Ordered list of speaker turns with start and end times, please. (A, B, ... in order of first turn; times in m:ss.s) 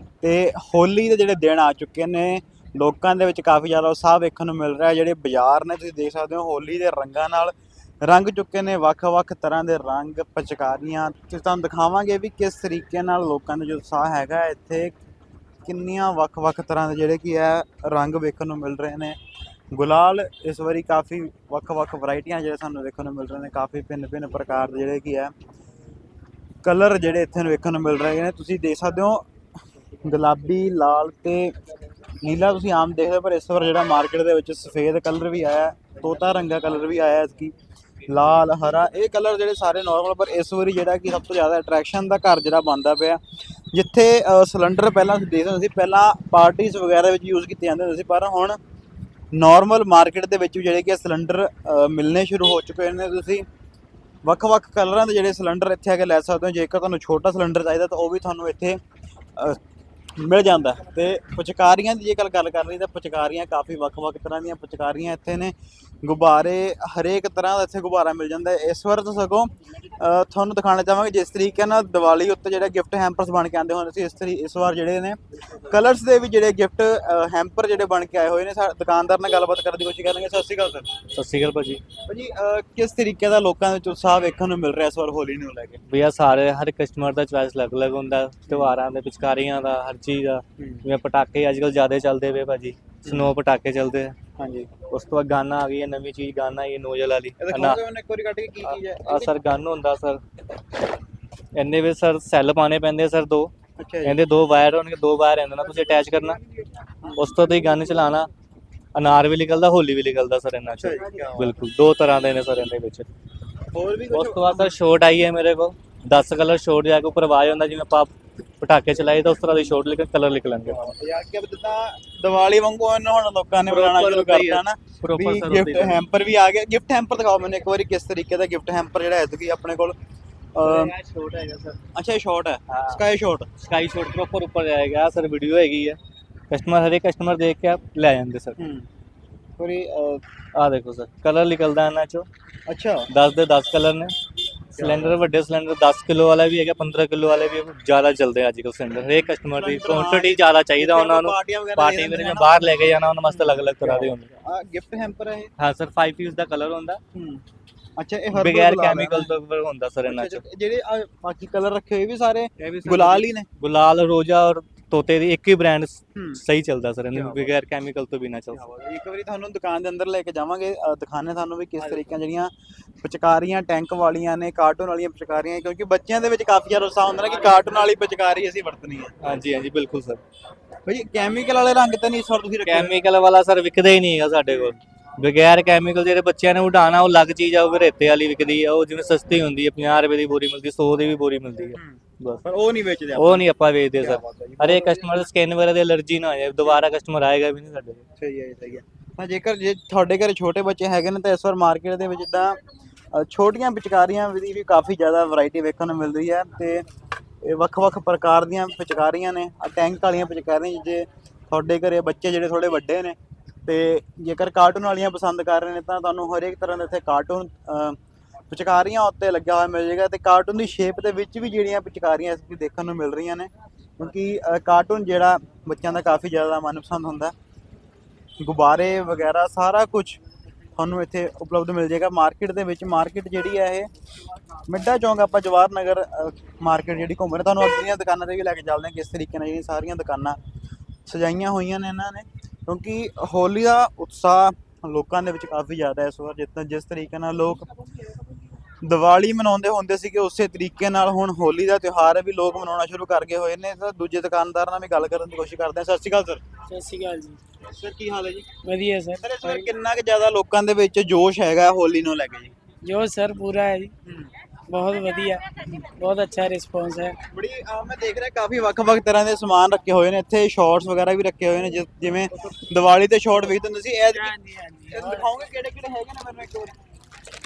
0:00.2-0:14.9 A
0:15.6-0:19.2 A
0:19.7-0:25.3 A
0:26.6-0:29.2 A
0:30.0-0:31.5 A
0:32.2-0:37.5 A
0:38.1-0:43.2 A
0:43.7-0:48.6 A
0:49.3-0:53.4 A
0:54.2-0:58.8 A
1:00.2-1:15.2 A
1:15.7-1:20.9 A
1:21.1-1:21.8 B
1:22.0-1:25.8 A
1:25.9-1:34.2 B
1:28.5-1:28.8 A
1:30.6-1:30.9 A
1:33.0-1:33.3 A
1:34.4-1:34.7 A
1:34.9-1:37.8 B
1:37.4-1:39.3 A
1:38.6-1:40.2 B
1:41.5-1:43.5 B
1:43.8-1:44.2 A
1:44.0-1:46.4 B
1:47.0-1:47.3 A
1:47.1-1:48.3 B
1:48.9-1:53.1 B
1:50.8-1:51.6 A
1:53.7-1:54.8 A
1:54.1-2:00.9 B
2:00.6-2:10.0 A
2:03.6-2:06.0 B
2:10.6-2:10.9 A
2:10.7-2:11.7 B
2:11.9-2:13.5 A
2:12.7-2:13.0 B
2:13.6-2:16.0 B
2:16.5-2:18.6 B
2:18.6-2:18.9 A
2:19.6-2:20.2 A
2:20.5-2:22.3 B
2:22.7-2:23.1 A
2:23.1-2:24.1 B
2:24.7-2:34.3 B
2:24.8-2:25.2 A
2:29.2-2:32.7 A
2:33.2-2:35.5 A
2:35.6-2:37.0 B
2:37.1-2:37.4 A
2:38.0-2:39.3 A
2:38.3-2:40.4 B
2:40.1-2:43.5 A
2:42.6-2:48.6 B
2:46.1-2:46.4 A
2:47.1-2:47.5 A
2:48.5-2:59.1 A
2:59.2-3:00.2 B
3:00.8-3:03.0 A
3:02.6-3:12.4 B
3:04.5-3:04.8 A
3:11.8-3:13.5 A
3:13.1-3:18.0 B
3:14.0-3:15.2 A
3:16.6-3:17.0 A
3:18.2-3:22.6 A
3:23.1-3:26.8 A
3:27.4-3:38.0 A
3:38.5-3:47.3 A
3:48.4-3:50.2 A
3:50.8-3:53.9 A
3:54.6-4:00.4 A
4:01.0-4:07.7 A
4:08.8-4:16.4 A
4:16.7-4:17.4 C
4:17.7-4:18.5 A
4:18.6-4:19.6 C
4:19.2-4:22.5 A
4:22.8-4:23.9 C
4:24.7-4:27.2 C
4:27.3-4:34.4 A
4:34.1-4:35.2 C
4:34.9-4:36.7 A